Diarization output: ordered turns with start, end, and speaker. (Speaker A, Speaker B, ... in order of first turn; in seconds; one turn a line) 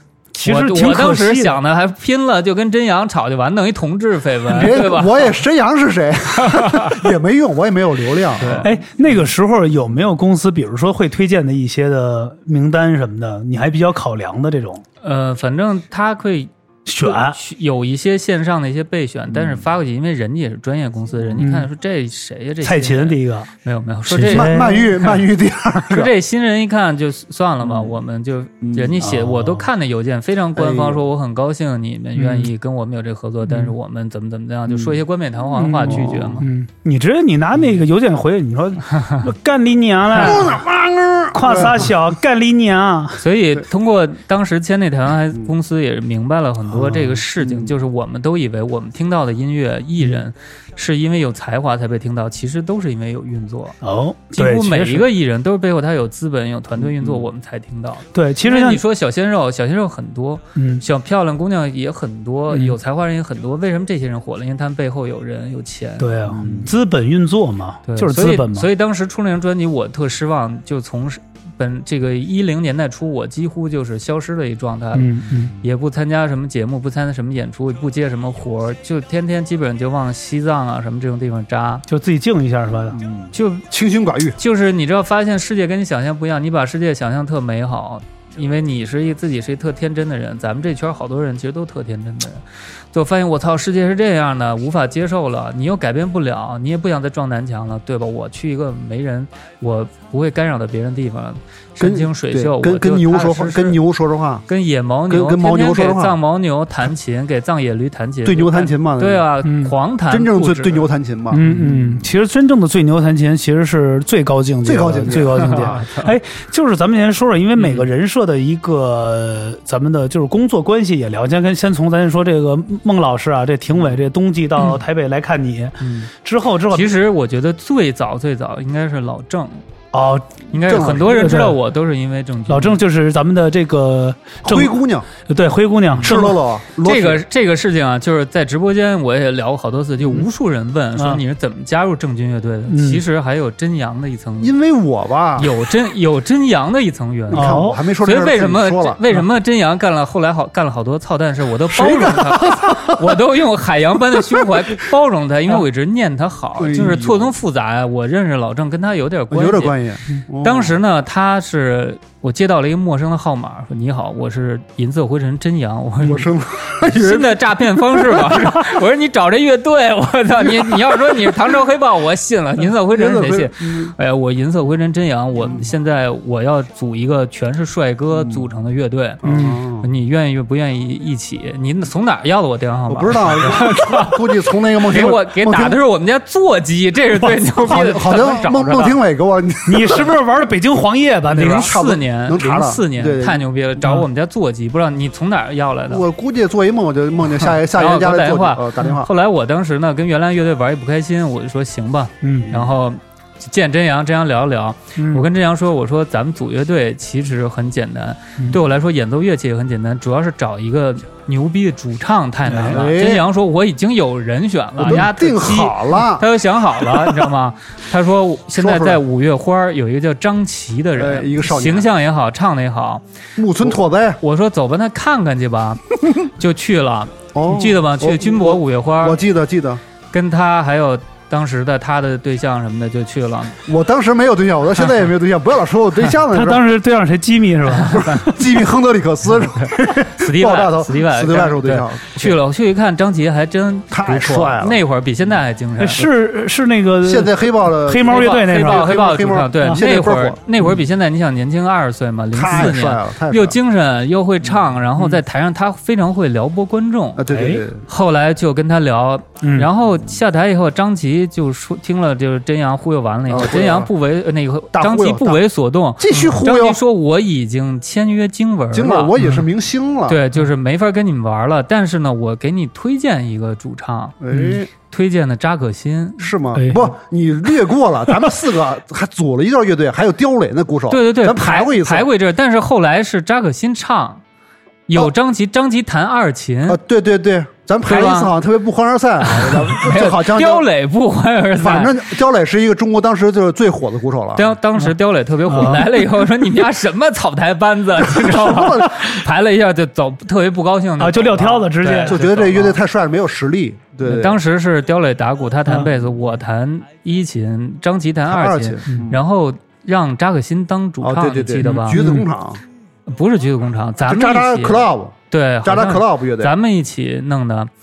Speaker A: 0.3-1.6
Speaker B: 0.4-5.3
Speaker C: 4.5-8.7
Speaker B: 6.4-6.9
Speaker B: 8.4-8.7
Speaker A: 8.6-14.8
Speaker B: 15.0-25.2
Speaker A: 16.9-17.4
Speaker C: 19.3-19.6
Speaker A: 21.4-21.7
Speaker A: 22.6-23.5
Speaker A: 24.1-25.1
Speaker C: 24.2-26.1
Speaker B: 25.9-36.5
Speaker C: 27.6-27.9
Speaker C: 28.6-29.0
Speaker A: 29.0-29.6
Speaker C: 30.6-31.0
Speaker A: 32.1-32.5
Speaker A: 33.5-33.7
Speaker C: 34.7-35.0
Speaker A: 35.5-40.6
Speaker C: 35.9-36.4
Speaker C: 40.1-41.9
Speaker A: 41.3-43.2
Speaker B: 43.2-53.8
Speaker C: 46.8-47.7
Speaker A: 53.8-55.1
Speaker B: 54.3-66.5
Speaker C: 56.8-57.2
Speaker A: 58.1-58.8
Speaker A: 60.5-60.8
Speaker A: 62.5-62.8
Speaker A: 66.0-68.7
Speaker C: 66.3-66.7
Speaker B: 67.9-81.8
Speaker A: 74.9-75.5
Speaker A: 81.9-83.0
Speaker C: 82.9-84.4
Speaker B: 83.3-83.6
Speaker B: 84.4-103.8
Speaker C: 101.8-104.5
Speaker B: 104.5-110.9
Speaker C: 105.1-106.2
Speaker C: 108.2-109.2
Speaker A: 109.4-109.7
Speaker C: 110.1-111.9
Speaker A: 111.3-126.9
Speaker B: 111.4-111.7
Speaker C: 114.6-115.7
Speaker B: 115.4-116.1
Speaker B: 117.6-117.9
Speaker B: 125.8-126.1
Speaker B: 126.7-129.6
Speaker A: 129.9-131.6
Speaker B: 130.5-132.8
Speaker C: 130.7-131.4
Speaker A: 132.5-136.4
Speaker C: 134.4-135.1
Speaker C: 136.0-137.2
Speaker B: 136.8-144.5
Speaker A: 140.9-141.2
Speaker A: 142.7-143.0
Speaker C: 144.4-145.5
Speaker B: 145.4-159.7
Speaker C: 147.3-149.0
Speaker A: 147.3-147.8
Speaker C: 151.7-153.1
Speaker C: 154.1-154.4
Speaker C: 156.6-157.3
Speaker C: 159.3-160.8
Speaker B: 160.4-166.3
Speaker C: 166.0-168.7
Speaker B: 166.8-179.2
Speaker C: 172.9-173.9
Speaker C: 175.4-175.7
Speaker C: 178.2-178.4
Speaker C: 179.2-179.9
Speaker A: 179.2-179.6
Speaker B: 179.8-184.2
Speaker C: 182.9-185.8
Speaker B: 184.9-189.0
Speaker C: 187.6-190.1
Speaker A: 189.7-191.7
Speaker B: 191.3-196.0
Speaker C: 191.4-193.4
Speaker C: 195.9-199.1
Speaker B: 197.4-223.0
Speaker A: 202.2-202.5
Speaker A: 205.0-205.2
Speaker A: 212.5-212.8
Speaker C: 212.7-213.2
Speaker C: 214.8-216.2
Speaker C: 218.6-219.0
Speaker C: 220.9-221.9
Speaker C: 223.4-224.2
Speaker B: 223.6-229.2
Speaker C: 227.3-229.8
Speaker B: 230.1-233.6
Speaker C: 233.7-236.6
Speaker A: 236.3-238.3
Speaker B: 237.9-238.2
Speaker C: 237.9-242.4
Speaker B: 240.1-246.1
Speaker C: 243.9-244.8
Speaker A: 245.8-248.9
Speaker C: 247.0-250.4
Speaker B: 248.1-257.2
Speaker C: 252.3-253.6
Speaker C: 257.2-257.8
Speaker A: 257.3-257.6
Speaker B: 257.9-269.1
Speaker A: 259.4-259.7
Speaker C: 263.3-263.9
Speaker C: 264.7-265.4
Speaker C: 266.0-266.8
Speaker C: 268.7-270.2
Speaker A: 269.2-269.4
Speaker B: 270.1-274.1
Speaker C: 274.2-274.7
Speaker A: 274.3-274.6
Speaker B: 274.7-276.3
Speaker C: 276.2-282.1
Speaker A: 276.5-276.9
Speaker B: 280.9-284.2
Speaker B: 284.9-286.8
Speaker C: 286.7-290.6
Speaker B: 287.8-288.3
Speaker B: 289.2-292.1
Speaker C: 291.6-294.5
Speaker B: 294.4-302.8
Speaker A: 295.4-295.9
Speaker C: 298.0-299.1
Speaker A: 301.0-302.2
Speaker C: 302.0-304.4
Speaker B: 304.0-312.0
Speaker C: 308.3-309.2
Speaker C: 311.0-312.6
Speaker A: 311.6-312.3
Speaker B: 313.1-317.7
Speaker C: 314.1-316.5